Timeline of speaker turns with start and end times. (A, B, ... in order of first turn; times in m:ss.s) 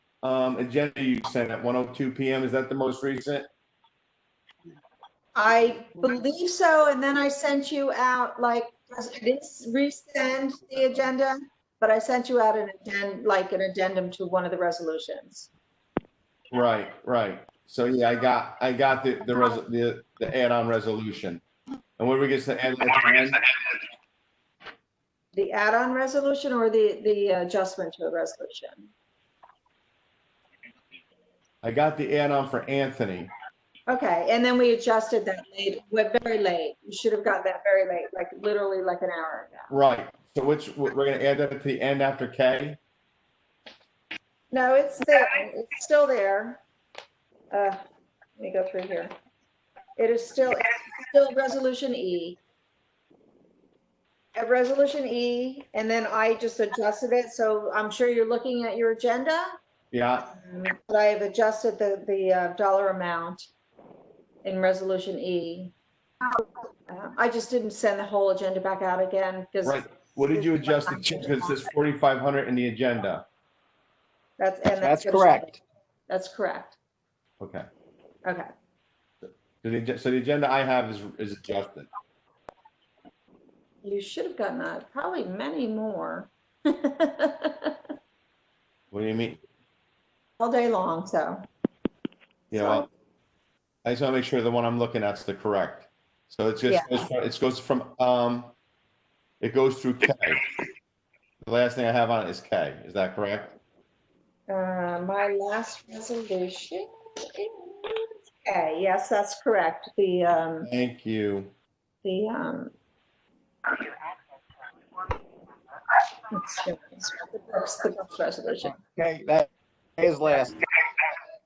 0:00.2-0:03.5 A
0:05.4-0:15.5 B
0:16.5-0:21.4 A
0:22.0-0:23.4 A
0:25.3-0:28.9 B
0:31.6-0:33.3 A
0:33.9-0:39.7 B
0:39.7-0:42.8 A
0:44.5-0:46.6 B
0:47.5-0:47.8 B
0:48.4-0:49.1 B
0:50.0-0:52.4 B
0:54.3-0:59.5 B
0:59.9-1:00.3 A
1:00.3-1:03.5 B
1:04.4-1:05.7 B
1:06.9-1:11.6 B
1:09.6-1:13.2 A
1:14.4-1:16.8 B
1:14.8-1:15.6 C
1:17.4-1:17.7 A
1:19.6-1:21.9 A
1:23.8-1:27.7 B
1:28.9-1:29.4 A
1:30.4-1:31.4 B
1:32.5-1:32.9 A
1:32.5-1:32.9 B
1:33.8-1:38.5 A
1:36.7-1:37.1 B
1:39.4-1:40.4 A
1:41.4-1:43.5 A
1:44.5-1:50.7 B
1:50.6-1:51.5 A
1:52.0-1:52.7 B
1:56.3-1:58.7 B
1:58.6-2:00.6 C